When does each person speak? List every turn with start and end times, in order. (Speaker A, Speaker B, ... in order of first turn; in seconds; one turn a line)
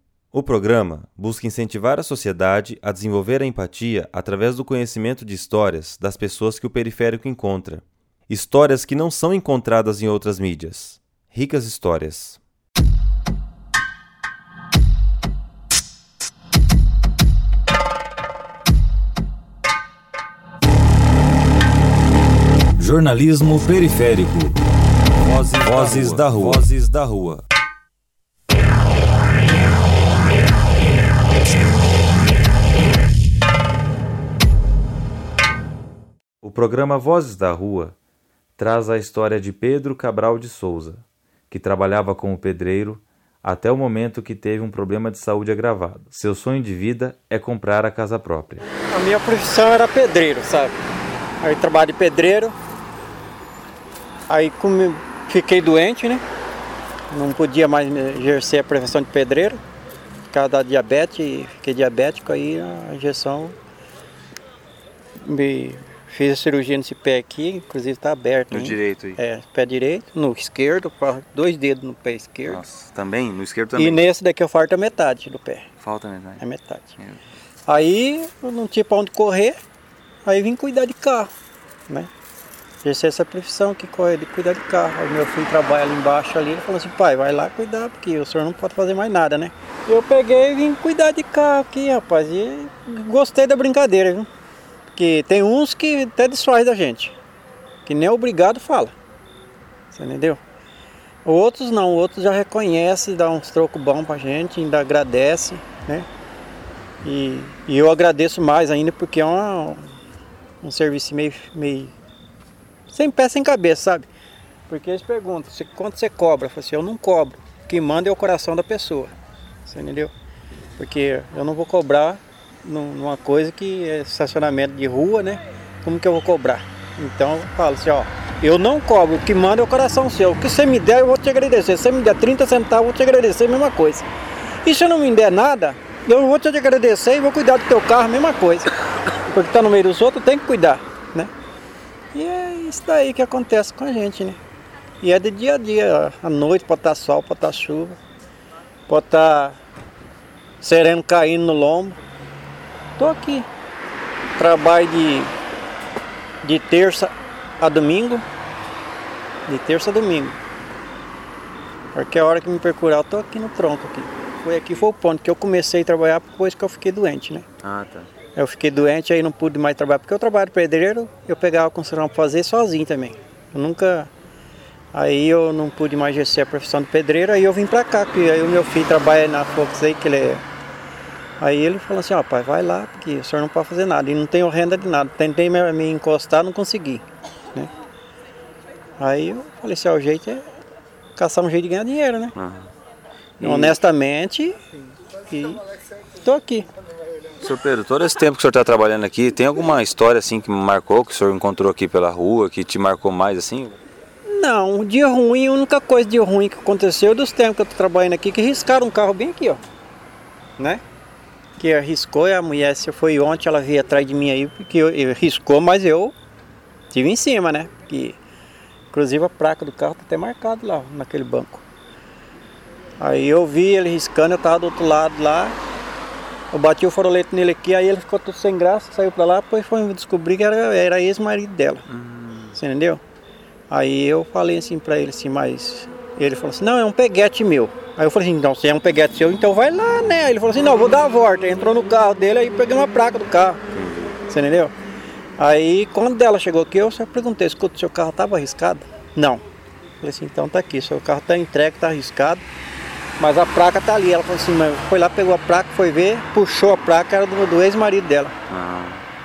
Speaker A: 0.3-12.4
Speaker A: 22.8-24.6
Speaker A: 25.2-27.4
Speaker A: 36.4-38.0
Speaker A: 38.6-48.6
Speaker B: 48.7-50.8
Speaker B: 51.4-52.5
Speaker B: 54.3-56.2
Speaker B: 57.1-59.6
Speaker B: 60.3-63.6
Speaker B: 65.3-72.6
Speaker A: 68.5-69.2
Speaker A: 72.5-74.0
Speaker B: 73.8-75.7
Speaker A: 75.8-76.4
Speaker B: 76.4-77.0
Speaker B: 77.7-79.6
Speaker B: 80.3-81.3
Speaker B: 82.8-94.3
Speaker B: 95.0-97.2
Speaker B: 97.8-98.9
Speaker B: 99.9-100.4
Speaker B: 101.2-106.1
Speaker B: 107.0-109.8
Speaker B: 110.6-111.9
Speaker B: 112.9-114.1
Speaker B: 114.7-119.1
Speaker B: 119.7-120.1
Speaker B: 120.8-134.1
Speaker B: 134.6-138.7
Speaker B: 139.3-141.3
Speaker B: 142.1-144.4
Speaker B: 145.0-148.0
Speaker B: 148.9-149.6
Speaker B: 150.6-152.0
Speaker B: 153.0-153.5
Speaker B: 154.4-155.3
Speaker B: 156.4-158.2
Speaker B: 159.5-160.4
Speaker B: 161.9-167.5
Speaker A: 167.6-168.1
Speaker B: 168.3-174.1
Speaker B: 174.9-180.4
Speaker B: 181.4-187.7
Speaker B: 189.0-190.4
Speaker B: 191.2-192.3
Speaker B: 193.4-194.6
Speaker A: 193.4-193.7
Speaker B: 195.3-195.6
Speaker B: 196.2-196.7
Speaker A: 197.4-203.7
Speaker B: 204.3-209.6
Speaker B: 211.6-216.2
Speaker B: 216.9-218.2
Speaker B: 218.9-221.7
Speaker B: 223.0-225.6
Speaker B: 226.5-231.8
Speaker A: 231.9-232.6
Speaker B: 232.5-233.0
Speaker B: 233.7-243.6
Speaker A: 243.8-244.1
Speaker B: 244.2-244.7
Speaker B: 245.4-249.4
Speaker B: 250.0-252.4
Speaker B: 253.2-258.3
Speaker A: 258.5-259.0